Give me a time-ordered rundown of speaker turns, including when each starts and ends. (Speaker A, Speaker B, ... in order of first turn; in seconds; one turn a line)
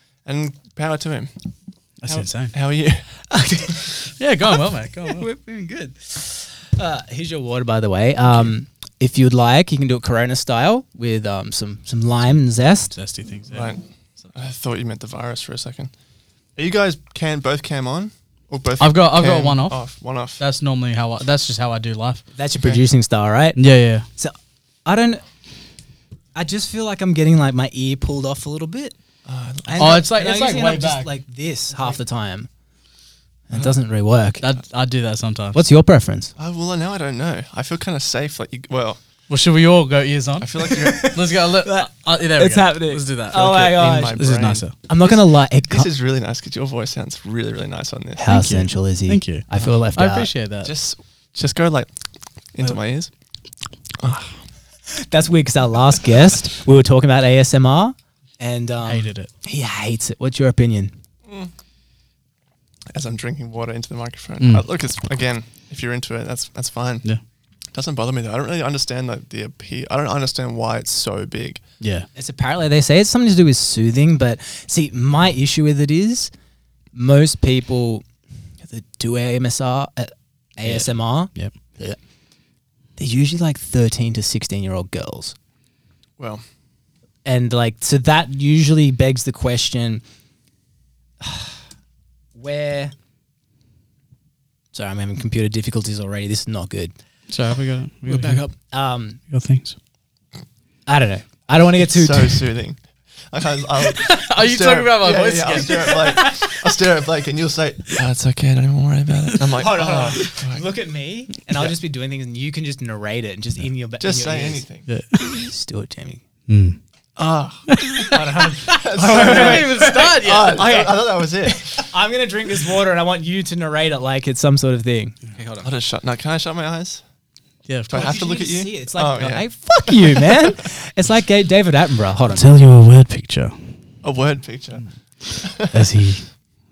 Speaker A: 0.2-1.3
Speaker B: 2.0-2.5
Speaker A: 2.1-3.1
Speaker C: 3.3-4.0
Speaker B: 4.2-5.3
Speaker C: 5.0-12.9
Speaker B: 12.9-13.7
Speaker A: 13.5-15.9
Speaker A: 16.6-20.4
Speaker B: 18.8-19.8
Speaker B: 20.4-22.2
Speaker C: 22.4-23.6
Speaker B: 23.6-24.1
Speaker C: 24.1-25.2
Speaker C: 26.4-28.9
Speaker A: 29.3-30.0
Speaker C: 29.7-32.5
Speaker B: 29.8-31.1
Speaker C: 33.5-34.4
Speaker B: 34.4-35.6
Speaker C: 35.5-36.3
Speaker A: 36.4-39.0
Speaker B: 39.3-43.5
Speaker A: 40.4-41.2
Speaker C: 40.6-44.2
Speaker A: 43.3-48.2
Speaker B: 44.1-44.7
Speaker C: 44.9-45.9
Speaker C: 48.2-50.3
Speaker B: 48.3-50.7
Speaker A: 50.6-51.9
Speaker A: 52.5-53.1
Speaker A: 54.0-54.4
Speaker C: 54.9-60.9
Speaker B: 58.8-59.3
Speaker A: 62.9-67.1
Speaker B: 64.4-64.7
Speaker A: 67.7-71.6
Speaker B: 71.8-72.1
Speaker C: 72.2-76.3
Speaker C: 76.9-78.0
Speaker C: 78.7-82.0
Speaker B: 80.6-81.5
Speaker C: 83.0-85.3
Speaker A: 86.2-86.4
Speaker C: 87.2-90.0
Speaker C: 91.2-91.6
Speaker C: 92.4-92.9
Speaker C: 94.7-96.9
Speaker B: 97.3-98.4
Speaker C: 98.1-99.2
Speaker B: 99.3-99.8
Speaker C: 100.9-102.5
Speaker A: 101.8-110.7
Speaker B: 103.9-106.4
Speaker C: 109.6-114.7
Speaker A: 114.0-114.9
Speaker B: 114.9-115.5
Speaker C: 115.4-116.2
Speaker B: 116.5-116.8
Speaker A: 117.2-118.0
Speaker B: 117.7-118.4
Speaker C: 118.1-125.7
Speaker A: 118.7-121.9
Speaker B: 119.1-120.8
Speaker A: 125.6-127.0
Speaker B: 127.7-128.2
Speaker A: 127.9-130.5
Speaker C: 127.9-132.5
Speaker B: 132.3-133.6
Speaker A: 134.0-135.8
Speaker B: 135.6-136.3